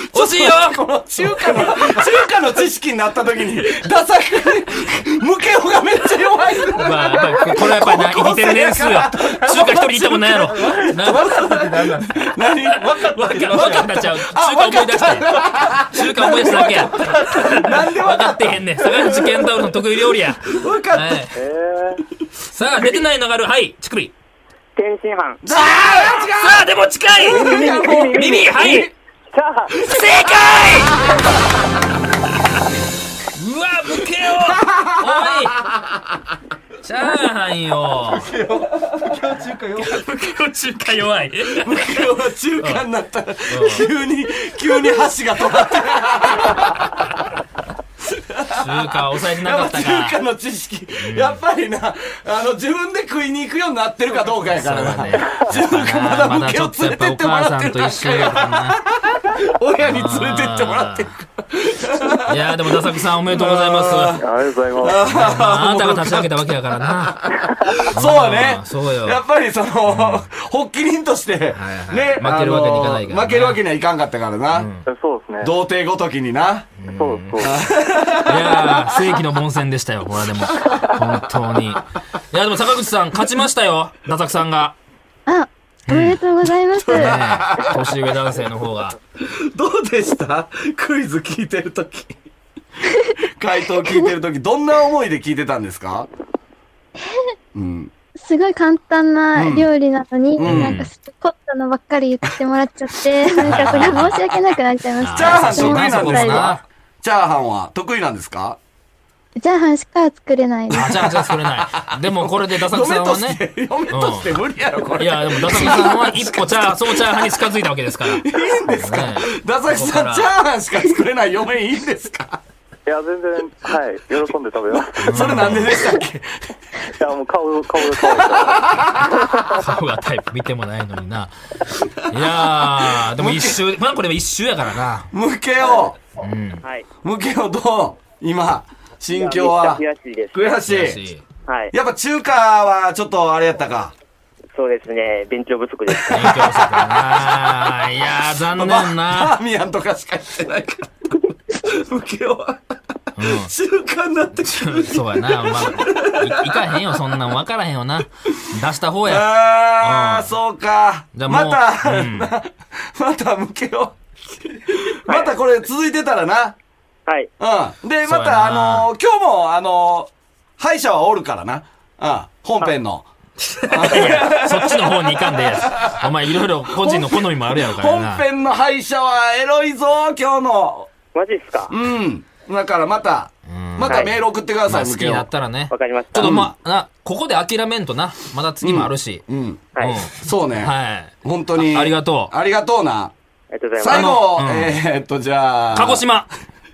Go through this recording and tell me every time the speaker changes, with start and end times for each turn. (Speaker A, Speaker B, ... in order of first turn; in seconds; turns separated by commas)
Speaker A: 0.1-10.3, Speaker B: 0.1-0.8, Speaker B: 1.3-1.7, Speaker B: 6.7-11.5, Speaker C: 10.2-12.1, Speaker A: 10.9-12.9, Speaker C: 12.8-14.1, Speaker B: 12.9-15.4, Speaker A: 13.6-19.5, Speaker B: 15.9-21.3, Speaker A: 20.4-21.3, Speaker D: 21.3-22.0, Speaker B: 22.5-24.1, Speaker A: 22.7-23.0, Speaker E: 24.8-25.4, Speaker A: 25.4-28.9, Speaker B: 25.5-28.9, Speaker D: 27.2-28.8, Speaker D: 29.3-29.8, Speaker B: 29.8-31.2, Speaker A: 30.0-31.2, Speaker B: 33.4-35.7, Speaker A: 34.2-35.9, Speaker B: 36.8-38.3, Speaker C: 38.1-40.0, Speaker B: 39.8-42.1, Speaker A: 41.5-47.0, Speaker B: 43.5-43.9, Speaker A: 48.0-64.2, Speaker B: 48.5-50.2, Speaker B: 51.0-51.4, Speaker B: 54.5-58.8, Speaker D: 55.2-55.4, Speaker B: 59.8-61.1, Speaker B: 62.2-64.2, Speaker D: 64.2-65.2, Speaker A: 64.8-74.7, Speaker B: 65.0-67.3, Speaker B: 67.9-69.2, Speaker B: 69.9-70.3, Speaker B: 71.5-73.6, Speaker B: 74.5-74.9, Speaker D: 74.9-75.5, Speaker A: 75.4-76.7, Speaker B: 76.8-77.5, Speaker D: 76.9-77.5, Speaker A: 77.4-79.2, Speaker B: 78.2-84.8, Speaker A: 80.5-81.2, Speaker F: 85.3-87.1, Speaker B: 85.9-86.2, Speaker A: 86.8-87.9, Speaker B: 86.9-89.0, Speaker A: 89.2-92.2, Speaker A: 93.2-96.1, Speaker A: 97.5-97.9, Speaker F: 98.2-106.5, Speaker A: 99.3-99.7, Speaker A: 100.3-100.8, Speaker B: 100.4-100.9, Speaker A: 103.3-104.4, Speaker B: 103.4-104.2, Speaker B: 105.0-106.6, Speaker A: 105.0-108.6, Speaker F: 109.4-111.0, Speaker A: 110.7-117.3, Speaker B: 110.7-114.4, Speaker B: 115.0-120.3, Speaker A: 118.1-122.4, Speaker D: 122.8-125.7, Speaker B: 125.0-125.9, Speaker A: 125.0-126.5, Speaker D: 126.9-129.6, Speaker A: 127.8-129.2, Speaker B: 129.6-131.3, Speaker B: 132.1-135.1, Speaker A: 132.1-133.6, Speaker A: 135.1-136.0, Speaker B: 136.2-136.6, Speaker E: 136.6-136.9, Speaker A: 137.0-141.0, Speaker E: 139.1-140.6, Speaker B: 140.7-141.2, Speaker E: 141.5-141.7, Speaker A: 141.7-143.9, Speaker E: 144.5-146.3, Speaker B: 146.1-149.3, Speaker A: 146.1-147.2, Speaker A: 148.5-157.0, Speaker B: 153.2-153.5, Speaker B: 154.5-160.3, Speaker A: 159.0-166.6, Speaker B: 161.1-162.3, Speaker E: 165.1-165.3, Speaker E: 167.1-167.3, Speaker A: 167.4-173.1, Speaker B: 168.0-168.9, Speaker B: 173.4-178.2, Speaker A: 173.7-176.1, Speaker A: 176.6-180.9, Speaker E: 181.1-181.7, Speaker A: 181.7-185.3, Speaker B: 183.5-189.2, Speaker E: 185.7-186.4, Speaker A: 186.2-186.5, Speaker A: 188.6-189.6, Speaker E: 189.8-190.1, Speaker B: 189.8-192.3, Speaker A: 190.1-193.1, Speaker E: 193.5-194.2, Speaker A: 193.8-196.0, Speaker B: 193.9-194.8, Speaker B: 195.7-196.3